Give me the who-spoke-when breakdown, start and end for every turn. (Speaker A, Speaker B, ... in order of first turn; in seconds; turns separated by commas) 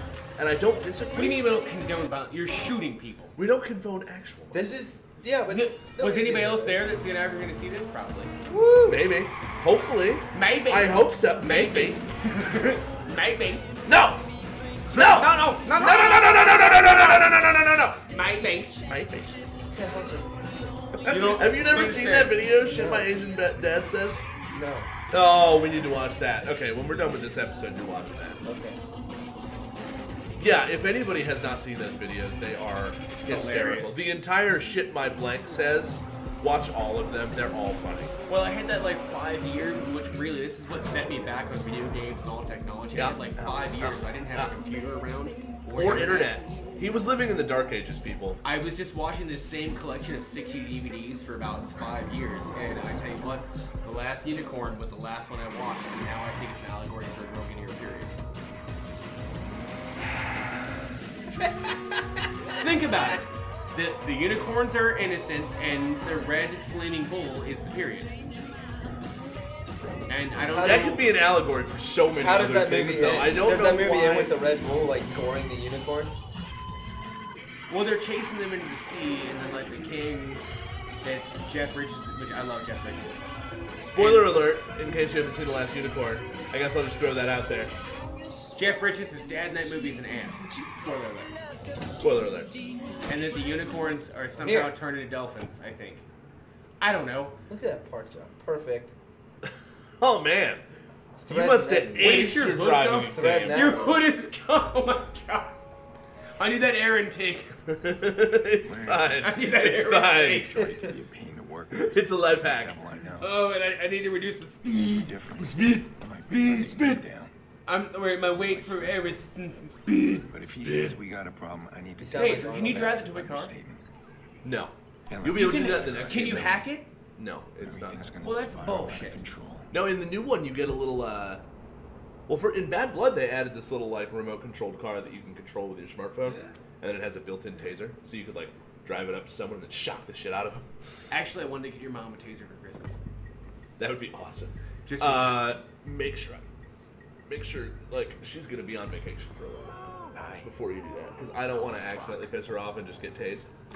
Speaker A: 0.4-1.4, Speaker B: 1.1-3.4, Speaker A: 3.4-4.7, Speaker C: 4.5-6.8, Speaker B: 5.5-8.3, Speaker C: 8.4-9.0, Speaker A: 8.9-12.0, Speaker B: 10.3-13.7, Speaker A: 13.9-14.2, Speaker A: 14.9-17.8, Speaker B: 14.9-18.8, Speaker A: 18.9-19.3, Speaker C: 19.7-20.8, Speaker B: 21.0-22.4, Speaker A: 21.0-24.2, Speaker C: 22.6-23.1, Speaker C: 24.5-24.9, Speaker A: 25.1-28.4, Speaker C: 28.4-28.8, Speaker A: 30.4-38.1, Speaker B: 33.2-34.0, Speaker B: 38.3-46.4, Speaker A: 42.9-43.9, Speaker C: 43.8-44.5, Speaker A: 45.7-48.4, Speaker B: 48.4-58.1, Speaker B: 62.5-68.4, Speaker B: 70.1-71.0, Speaker C: 70.5-71.1, Speaker A: 70.6-74.4, Speaker C: 72.2-76.1, Speaker B: 77.7-80.4, Speaker B: 81.0-83.2, Speaker A: 83.9-87.7, Speaker B: 83.9-84.4, Speaker B: 88.5-91.4, Speaker A: 92.0-92.5, Speaker D: 92.7-93.0, Speaker B: 93.0-96.0, Speaker C: 94.4-94.8, Speaker B: 96.8-97.4, Speaker C: 97.5-98.9, Speaker A: 100.0-100.6, Speaker C: 101.2-102.4, Speaker A: 101.2-103.8, Speaker B: 101.9-105.6, Speaker C: 103.1-104.0, Speaker B: 106.4-107.5, Speaker A: 107.7-110.5, Speaker D: 108.6-109.3, Speaker B: 109.2-110.6, Speaker D: 110.3-113.5, Speaker A: 111.7-112.8, Speaker B: 113.2-115.1, Speaker D: 114.9-117.3, Speaker A: 115.4-117.0, Speaker B: 117.7-120.2, Speaker D: 118.3-119.2, Speaker A: 119.9-121.0, Speaker D: 120.3-123.8, Speaker C: 122.0-123.1, Speaker B: 122.1-123.5, Speaker A: 124.4-126.6, Speaker D: 125.1-126.7, Speaker B: 125.2-126.9, Speaker A: 127.2-128.1, Speaker D: 127.6-129.7, Speaker B: 128.2-129.2, Speaker A: 129.7-131.4, Speaker A: 132.3-140.6, Speaker B: 141.1-143.0, Speaker A: 143.8-146.4, Speaker B: 144.9-145.5, Speaker A: 147.3-153.5, Speaker D: 150.1-150.5, Speaker D: 151.3-152.4